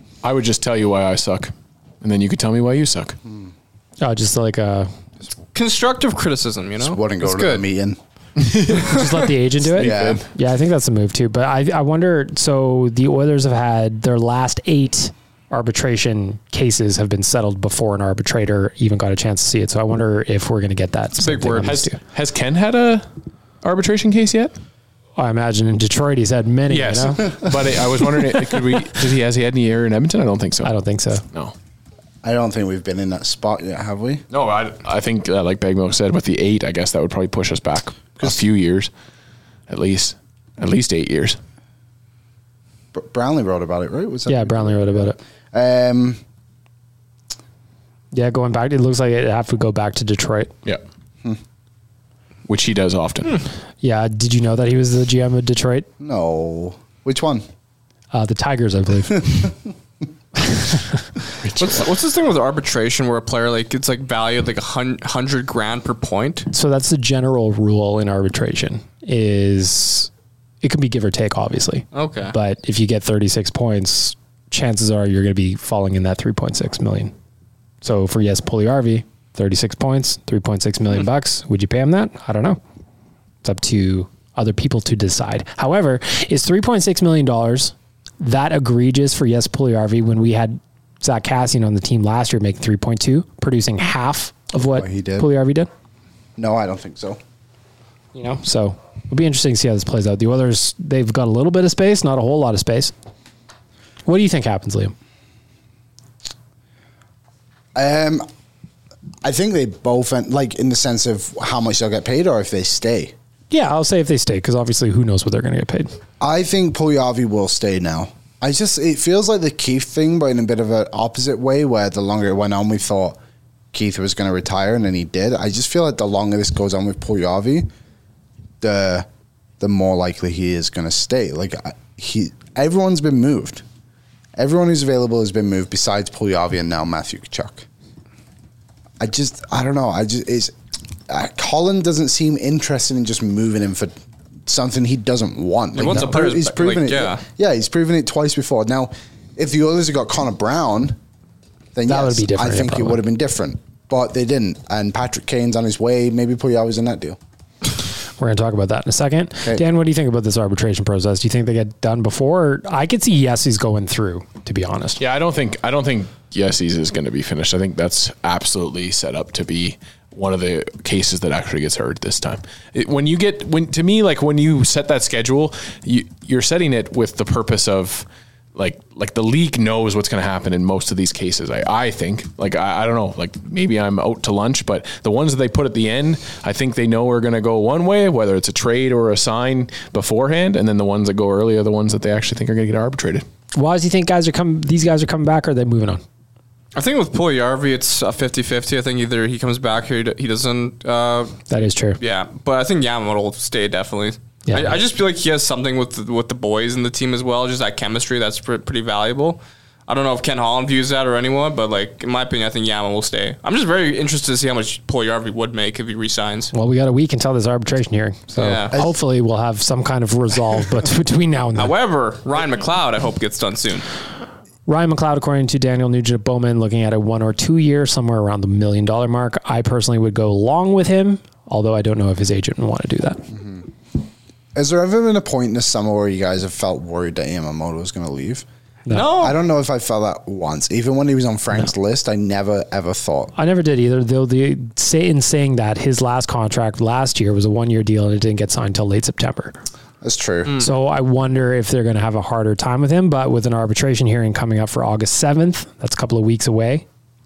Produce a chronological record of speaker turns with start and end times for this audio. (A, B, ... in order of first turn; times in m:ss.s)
0:00.2-0:03.2 A
0:03.2-0:03.5 B
0:04.0-0:04.9 C
0:05.5-0:07.6 D
0:06.8-0:08.0 B
0:08.4-0:10.2 A
0:08.9-0:22.0 C
0:09.8-0:10.2 B
0:21.2-0:23.0 A
0:23.6-0:24.5 A
0:25.2-0:27.3 C
0:26.7-0:30.7 A
0:30.6-0:31.2 C
0:32.2-0:34.2 B
0:34.3-0:38.9 A
0:39.7-0:41.4 A
0:42.9-0:46.2 B
0:44.3-0:45.2 C
0:48.1-0:50.5 C
0:52.5-0:53.4 A
0:53.8-0:55.9 C
0:56.0-0:57.4 B
0:58.1-0:59.5 C
1:00.6-1:00.8 C
1:01.4-1:01.9 A
1:01.6-1:06.5 D
1:06.5-1:10.1 C
1:10.6-1:17.1 C
1:11.9-1:12.3 D
1:17.8-1:22.6 C
1:23.4-1:35.7 C
1:34.5-1:35.3 B
1:36.4-1:37.2 B
1:38.1-1:42.9 C
1:44.0-1:44.9 C
1:47.7-1:48.2 B
1:49.2-1:53.1 B
1:53.5-1:55.9 C
1:56.2-2:03.2 B
2:03.7-2:07.7 B
2:08.6-2:09.1 B
2:09.6-2:13.6 B
2:14.4-2:17.6 B
2:19.0-2:20.5 B
2:21.1-2:31.0 B
2:25.7-2:27.2 D
2:31.7-2:37.2 B
2:31.9-2:33.0 C
2:38.2-2:45.0 C
2:45.0-3:13.2 A
3:13.5-3:16.0 C
3:16.7-3:21.4 D
3:21.5-3:22.0 C
3:22.0-3:36.5 D
3:24.5-3:24.8 C
3:36.5-3:41.7 C
3:38.4-3:38.7 D
3:41.6-3:43.8 D
3:44.7-3:53.2 C
3:53.3-3:53.7 B
3:54.5-3:58.4 B
3:58.9-3:59.3 D
3:59.1-4:03.3 B
4:03.4-4:09.6 C
4:10.0-4:10.5 B
4:10.6-4:16.8 C